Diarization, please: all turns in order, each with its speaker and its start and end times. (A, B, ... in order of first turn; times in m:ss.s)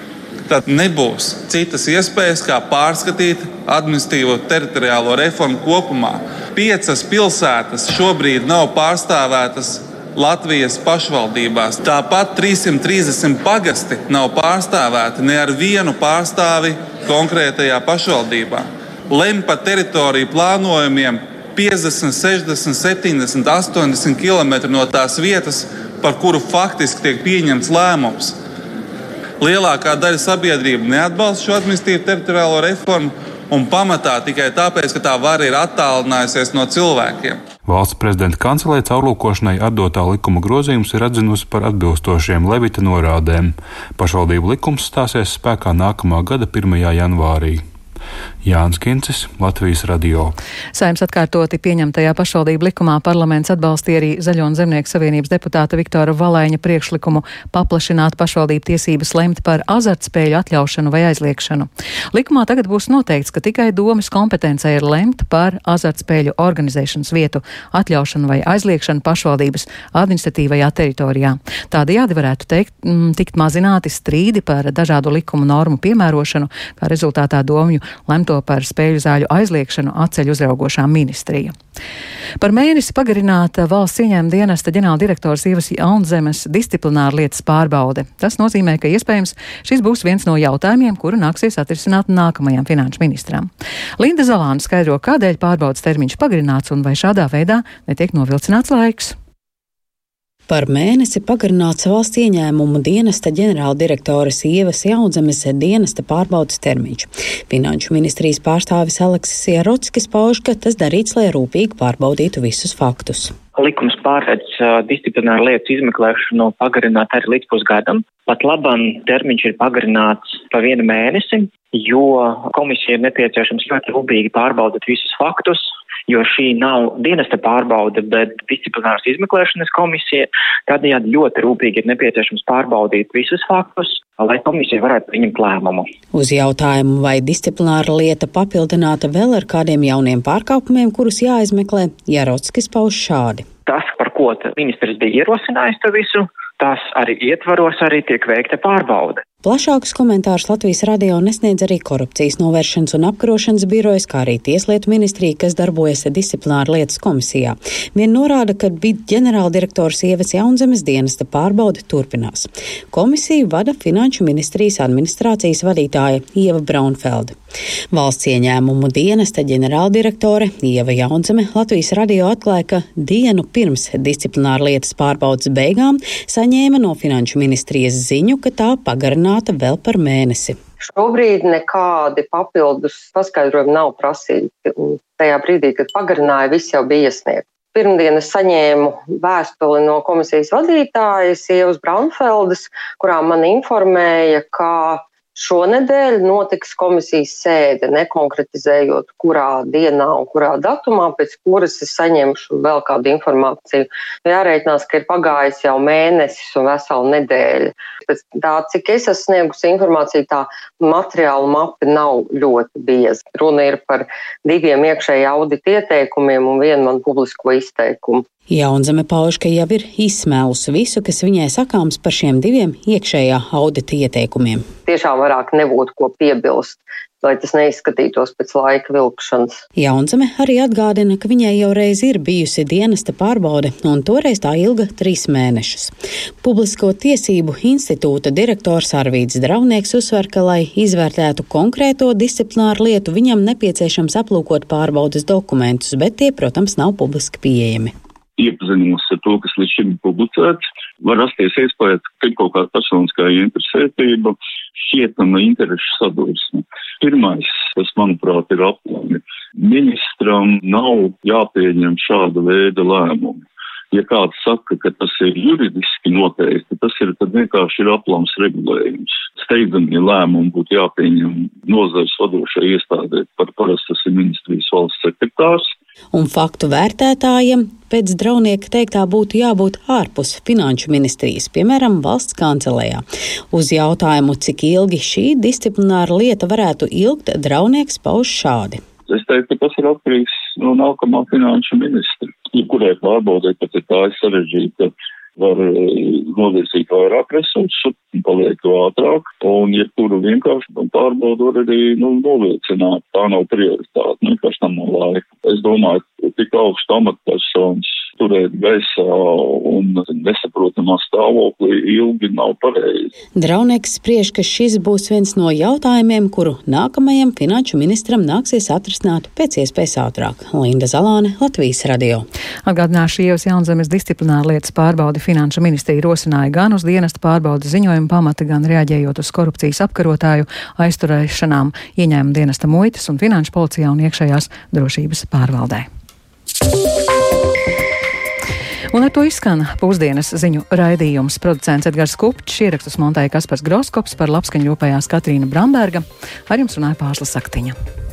0:00.5-0:28.4 A
0:29.4-0:37.4 A
0:37.6-0:47.6 B
0:48.4-0:50.4 B
0:50.7-1:21.5 C
1:22.4-1:39.1 C
1:40.5-1:53.3 D
1:53.6-2:15.9 E
2:16.1-2:23.4 D
2:23.6-2:29.2 E
2:29.4-2:47.4 D
2:47.9-3:00.6 D
3:00.8-3:38.2 F
3:38.5-3:44.6 D
3:44.9-3:49.6 F
3:49.8-4:07.9 D
4:08.4-4:35.7 G
4:36.1-4:48.8 D
4:49.1-5:13.1 G
5:13.4-5:22.2 D
5:22.6-5:35.8 C
5:38.9-5:47.7 C